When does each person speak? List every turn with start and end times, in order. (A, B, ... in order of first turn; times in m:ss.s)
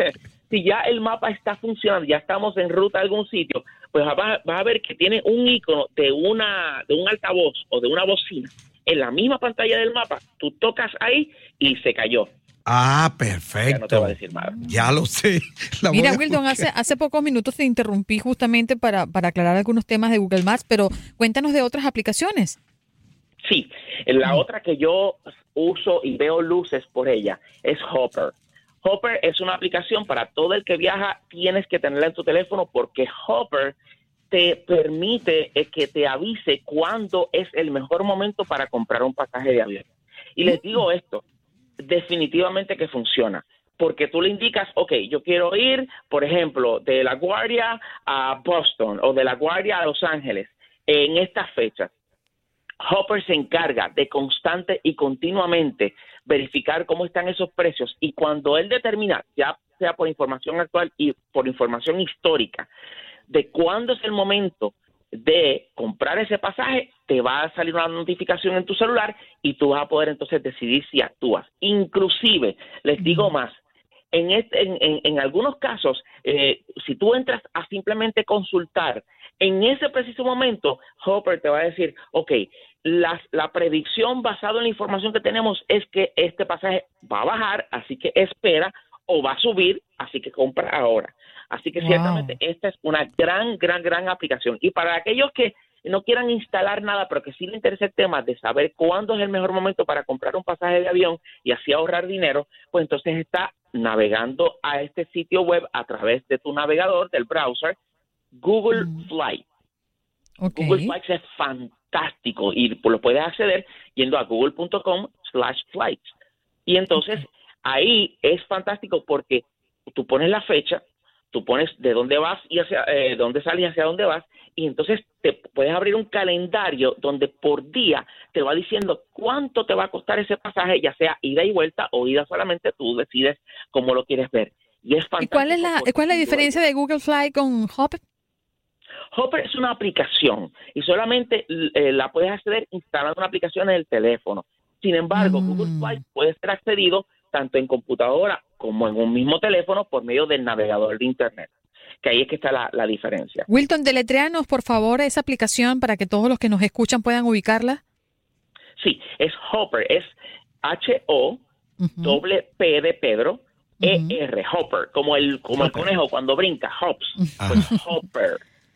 0:00.5-0:12.3 A
0:12.6-0:16.6 B
0:13.7-0:14.5 A
0:14.3-0:15.0 C
0:15.9-0:22.6 C
0:23.4-0:33.7 A
0:34.3-0:39.8 A
0:40.4-0:41.2 A
0:40.4-0:40.7 C
0:41.8-0:51.9 A
0:52.8-1:02.7 A
1:03.3-1:13.5 A
1:13.0-1:13.3 C
1:14.1-1:47.7 A
1:31.8-1:32.3 C
1:48.3-1:49.4 A
1:48.7-1:49.0 C
1:50.4-1:50.9 C
1:50.5-1:56.0 A
1:56.6-2:16.6 A
2:15.2-2:18.0 C
2:19.1-2:31.5 A
2:25.1-2:26.0 C
2:32.0-2:33.4 A
2:33.5-2:37.8 C
2:38.8-2:41.4 A
2:41.8-2:42.2 C
2:42.0-2:48.4 A
2:43.8-2:44.2 C
2:47.2-2:47.6 C
2:47.4-2:47.6 B